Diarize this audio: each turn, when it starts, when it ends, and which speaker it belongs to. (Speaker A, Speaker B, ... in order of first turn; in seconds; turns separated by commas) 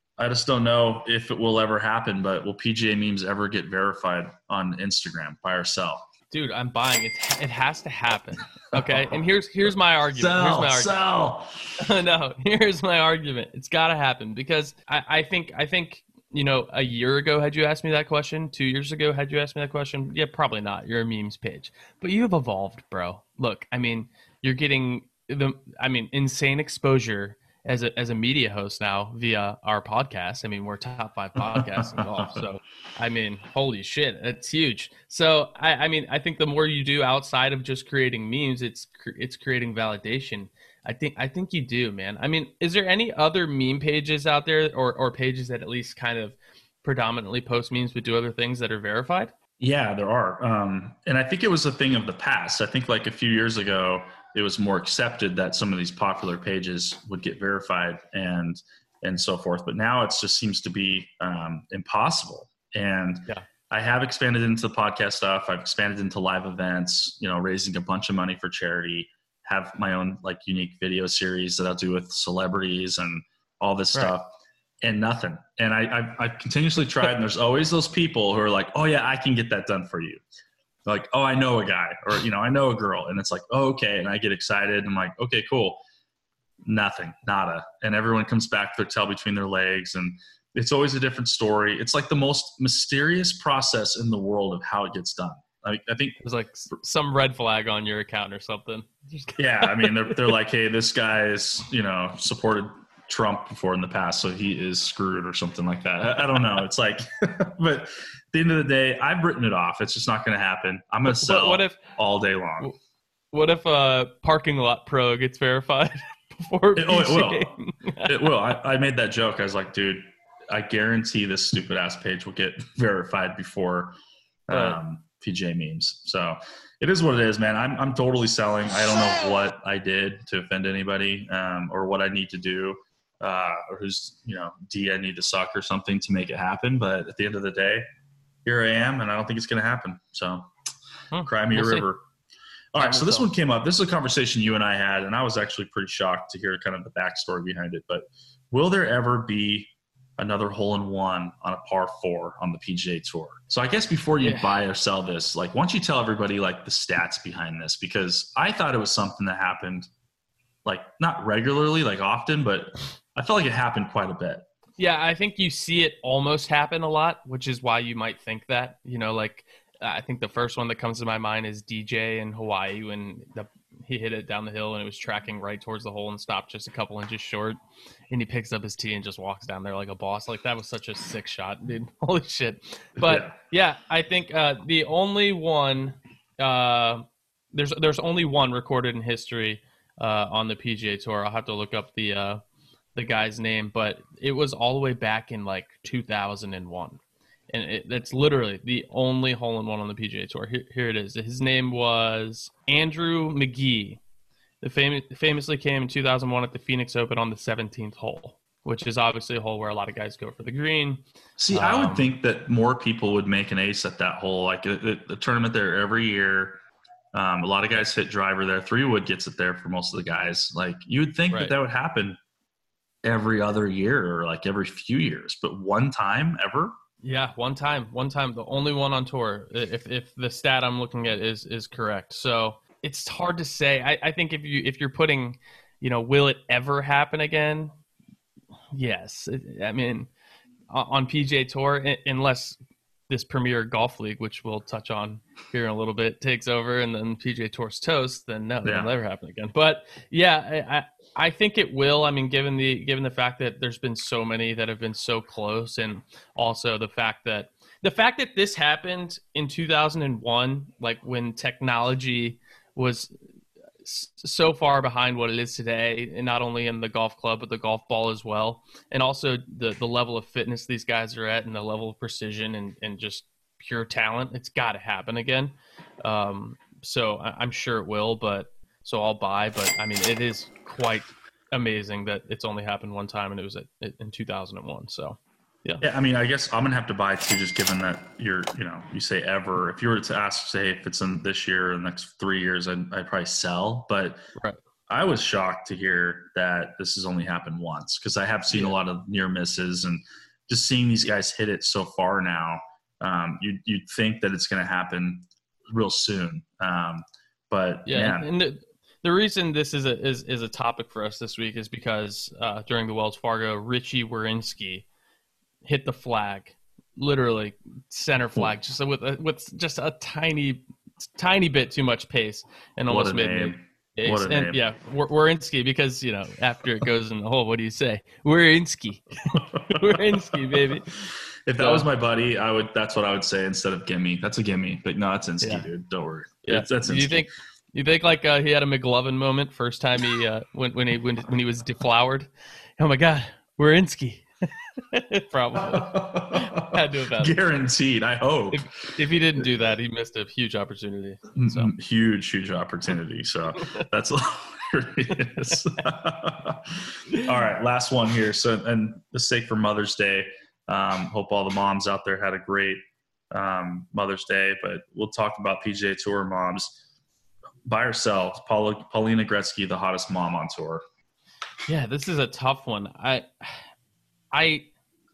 Speaker A: 0.2-6.1, Speaker B: 6.3-10.9, Speaker A: 8.7-9.2, Speaker A: 10.2-11.6, Speaker B: 11.8-49.3, Speaker A: 31.6-32.4, Speaker A: 49.6-74.3, Speaker A: 74.8-80.2, Speaker A: 80.9-85.8, Speaker A: 86.7-96.2, Speaker B: 96.2-100.2, Speaker A: 99.4-112.7, Speaker B: 111.1-111.8, Speaker B: 113.3-118.3, Speaker A: 116.8-117.5, Speaker A: 118.0-123.9, Speaker A: 124.5-137.8, Speaker B: 124.5-124.8, Speaker A: 138.4-140.5, Speaker B: 141.1-141.9, Speaker A: 141.2-142.0, Speaker A: 142.7-159.9, Speaker B: 142.8-143.3, Speaker B: 154.2-154.5, Speaker A: 160.7-164.5, Speaker B: 164.8-177.6, Speaker B: 178.1-192.4, Speaker A: 183.0-183.3, Speaker B: 192.9-197.0, Speaker B: 197.5-204.0, Speaker B: 204.6-212.1, Speaker A: 211.4-216.6, Speaker A: 217.1-222.2, Speaker B: 221.3-221.6, Speaker A: 223.1-226.8, Speaker B: 227.0-237.8, Speaker B: 238.7-240.1, Speaker B: 240.7-242.6, Speaker B: 243.1-263.1, Speaker A: 248.6-248.9, Speaker B: 263.8-285.8, Speaker A: 285.8-294.2, Speaker A: 294.9-308.3, Speaker B: 298.5-298.8, Speaker B: 307.9-314.9, Speaker B: 315.6-330.9, Speaker A: 322.9-324.6, Speaker A: 329.4-330.7, Speaker A: 331.5-337.3, Speaker B: 331.6-331.9, Speaker B: 335.4-335.7, Speaker B: 336.5-344.3, Speaker B: 344.8-347.4, Speaker A: 345.6-349.0, Speaker B: 348.5-351.7, Speaker A: 351.4-362.8, Speaker A: 363.3-366.8, Speaker A: 367.6-370.8, Speaker B: 371.7-373.6, Speaker B: 374.3-374.7